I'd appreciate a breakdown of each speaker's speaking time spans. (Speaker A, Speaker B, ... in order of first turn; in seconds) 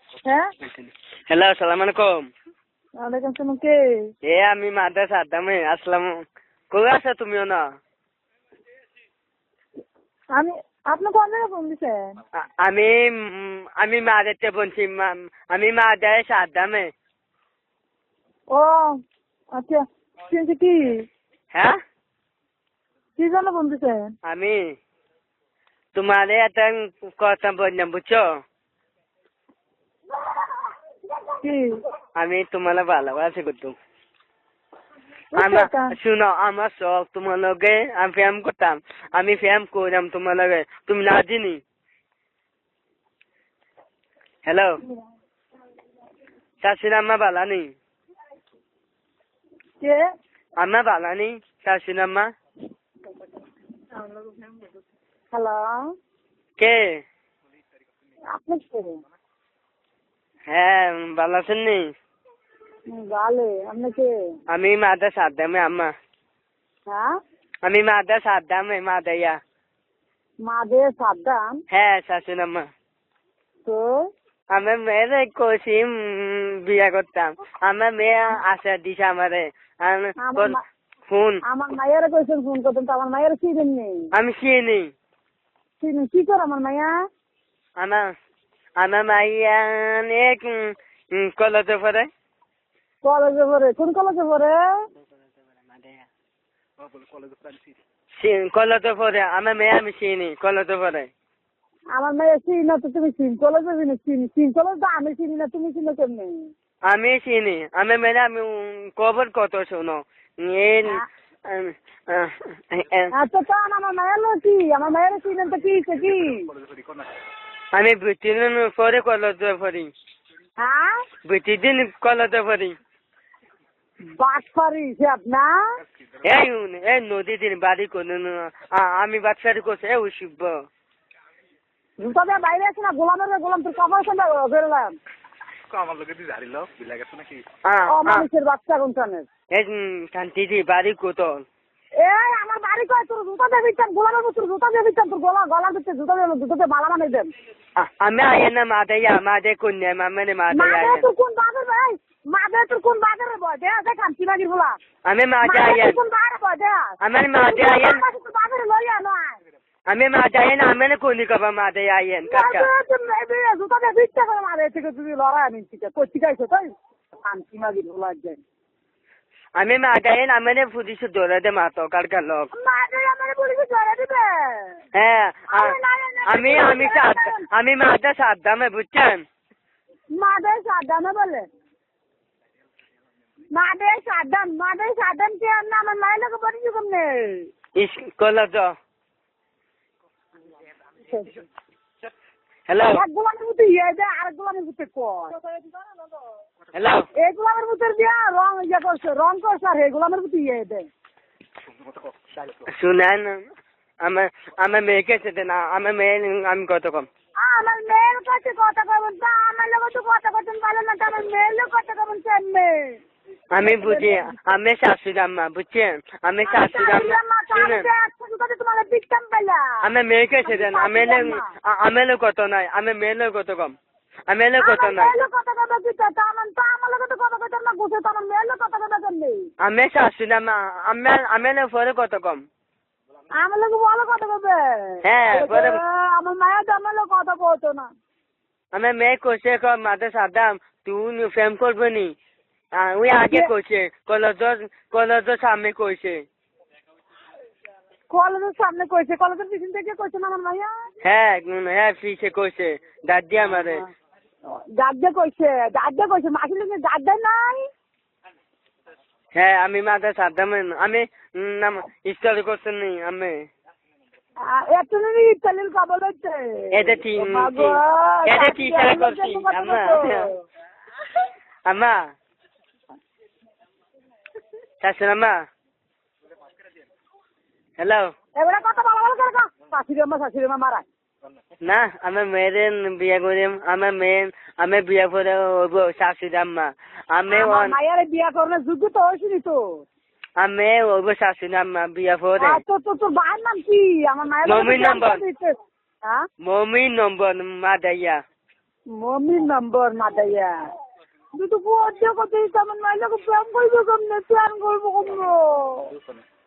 Speaker A: 0.6-2.3, 4.2-6.2, 6.7-7.6, 12.3-16.9, 24.2-24.7, 25.9-28.2, 32.1-33.7, 35.4-41.6, 44.5-44.8, 46.6-47.7, 50.6-52.3, 56.6-57.0, 60.5-61.9, 64.5-65.9, 67.6-69.4, 71.7-72.7, 74.5-80.5, 81.1-81.4, 84.1-84.9, 87.8-88.0, 88.8-92.1, 95.2-96.0, 98.2-101.1, 106.9-113.1, 117.7-119.9, 121.2-122.7, 126.2-130.6, 137.7-138.2, 139.5-141.4, 147.8-151.1, 155.0-156.0, 157.0-158.0, 159.9-162.7, 169.6-172.5, 174.9-179.2, 187.8-188.7, 192.7-193.0, 196.7-197.1, 202.7-203.4, 204.0-207.1, 213.5-217.8, 219.8-223.8, 224.3-225.2, 229.6-232.4, 235.0-235.8, 238.7-242.1, 242.8-246.2, 251.0-253.8, 259.3-263.4, 266.7-270.2, 271.7-272.0, 274.8-275.3, 277.8-278.1, 281.6-287.8, 290.4-292.6, 294.4-295.2, 296.4-298.2
Speaker B: 3.0-4.0, 10.3-12.2, 18.5-19.0, 19.5-21.1, 23.2-24.1, 31.4-31.8, 35.4-35.9, 55.3-55.8, 58.3-59.0, 62.9-64.1, 70.4-71.6, 73.6-73.9, 80.2-80.6, 81.4-84.0, 85.8-86.9, 93.0-94.6, 101.9-106.5, 113.1-116.5, 120.6-121.0, 124.2-125.5, 132.0-134.9, 137.9-139.3, 142.0-147.3, 150.5-154.8, 155.4-159.4, 162.3-166.7, 167.2-168.4, 172.5-174.8, 175.5-177.4, 180.2-181.4, 183.5-187.5, 191.0-191.4, 192.9-196.0, 197.1-200.9, 207.4-213.0, 213.6-214.3, 216.5-219.7, 220.4-221.5, 224.6-229.5, 233.3-237.9, 248.1-250.7, 253.5-253.8, 254.5-257.6, 264.4-270.3, 278.4-280.8, 287.3-289.8, 292.4-296.2, 299.0-300.5, 301.4-305.9
Speaker C: 96.8-97.8, 115.9-117.1, 135.7-137.5, 201.8-202.7, 305.9-306.2